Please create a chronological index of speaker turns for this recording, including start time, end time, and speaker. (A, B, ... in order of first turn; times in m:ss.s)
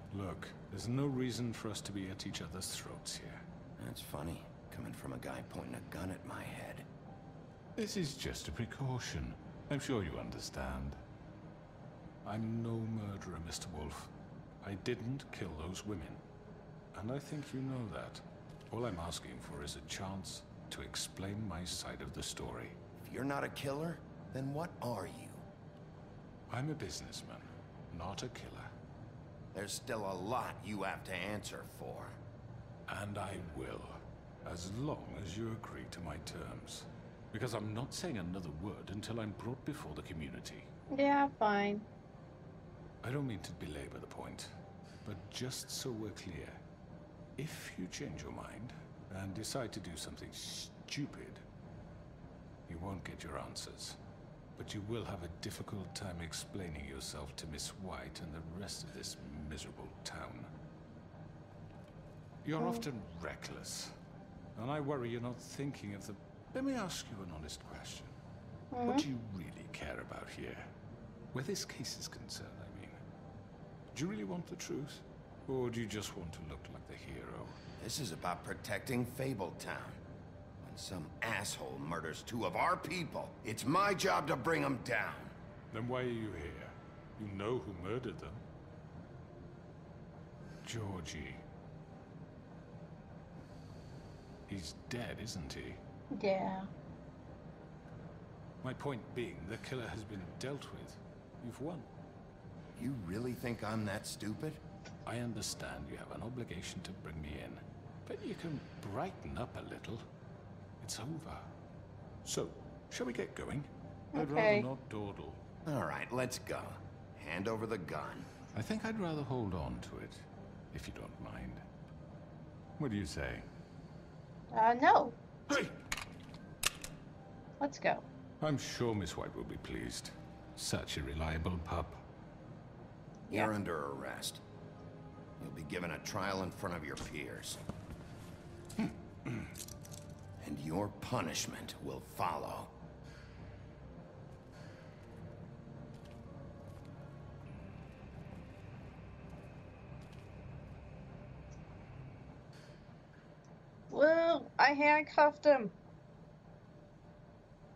0:00.1-0:03.4 A
0:03.8-0:06.9 B
0:07.8-0:11.0 A
0:12.2-0:14.1 A
0:14.6-0:16.2 A
0:16.9-0:22.8 A
0:23.0-0:25.4 B
0:26.5-0:28.7 A
0:29.5-0:32.2 B
0:32.9-0:40.7 A
0:40.9-0:41.9 C
0:43.0-0:44.5 A
0:45.0-0:46.6 A
0:47.4-0:51.4 A
0:52.7-0:54.0 A
0:54.6-1:00.5 A
1:02.4-1:03.9 A
1:02.6-1:02.8 C
1:04.6-1:08.2 A
1:08.7-1:09.0 C
1:08.8-1:10.7 A
1:11.3-1:13.0 A
1:13.9-1:17.6 A
1:17.8-1:20.0 B
1:20.6-1:25.3 B
1:25.7-1:28.4 A
1:30.6-1:31.4 A
1:34.5-1:35.8 A
1:36.1-1:36.7 C
1:38.6-1:41.9 A
1:42.8-1:44.6 B
1:45.1-1:50.0 A
1:50.8-1:51.5 A
1:52.2-1:55.4 A
1:54.1-1:54.7 C
1:55.6-1:58.3 B
1:58.5-2:01.6 A
2:02.8-2:03.5 A
2:04.5-2:05.2 C
2:07.6-2:08.0 C
2:08.4-2:12.0 A
2:13.3-2:14.4 B
2:15.4-2:17.6 B
2:18.8-2:19.5 A
2:20.4-2:22.7 B
2:33.9-2:35.7 C